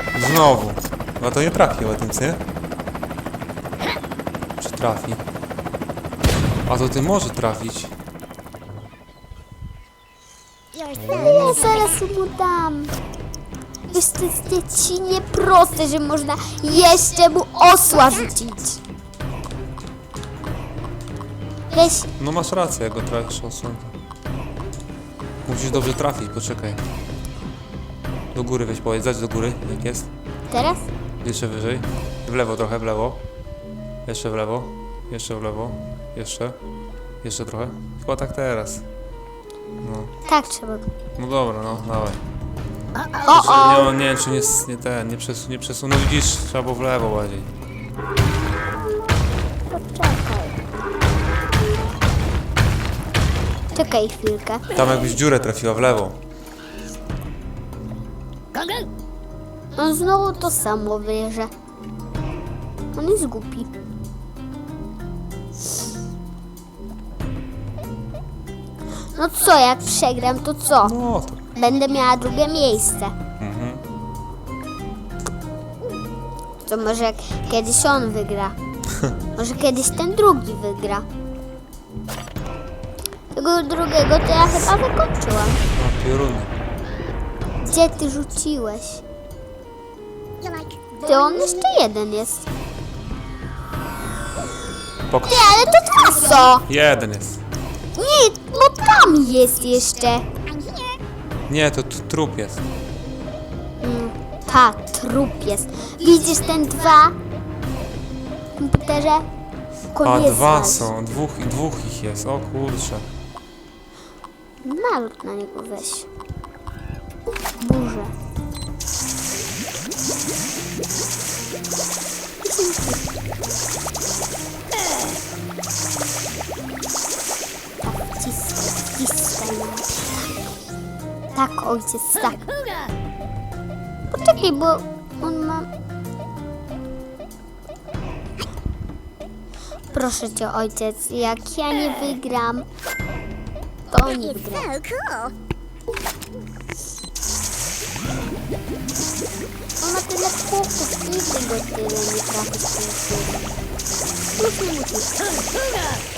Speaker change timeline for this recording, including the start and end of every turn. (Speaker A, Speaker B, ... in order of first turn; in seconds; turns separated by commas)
Speaker A: 0.1-2.4, Speaker A: 4.6-5.2, Speaker A: 6.7-7.9, Speaker B: 10.7-11.9, Speaker A: 11.0-11.7, Speaker C: 11.2-12.9, Speaker C: 13.9-18.8, Speaker C: 21.7-22.1, Speaker A: 22.2-23.9, Speaker A: 25.4-26.8, Speaker A: 28.3-30.1, Speaker C: 30.5-30.9, Speaker A: 31.2-33.2, Speaker A: 34.0-36.6, Speaker A: 37.2-38.8, Speaker A: 39.8-40.1, Speaker C: 40.2-40.9, Speaker A: 41.2-42.2, Speaker C: 43.2-43.9, Speaker A: 43.2-47.5, Speaker C: 49.7-50.5, Speaker C: 53.7-54.7, Speaker A: 54.7-56.2, Speaker C: 59.8-61.5, Speaker C: 62.9-63.7, Speaker C: 69.1-71.0, Speaker A: 70.8-71.4, Speaker C: 71.5-73.1, Speaker A: 73.4-73.8, Speaker C: 76.6-78.5, Speaker C: 79.3-81.0, Speaker C: 83.3-85.6, Speaker A: 85.7-86.5, Speaker C: 87.6-89.0, Speaker B: 90.4-91.6, Speaker C: 91.0-92.5, Speaker A: 95.1-95.5, Speaker C: 95.2-96.6, Speaker A: 96.7-97.4, Speaker C: 97.9-100.2, Speaker B: 100.5-101.0, Speaker A: 101.5-102.6, Speaker C: 103.8-107.1, Speaker C: 108.6-109.2, Speaker C: 109.9-110.9, Speaker A: 110.0-113.0, Speaker C: 114.6-116.1, Speaker C: 117.6-118.1, Speaker C: 122.4-123.0, Speaker C: 127.8-130.2, Speaker C: 131.3-132.5, Speaker C: 134.1-135.7, Speaker C: 139.9-142.7, Speaker C: 143.9-144.7, Speaker B: 144.2-145.3, Speaker C: 149.8-153.4, Speaker C: 154.3-155.3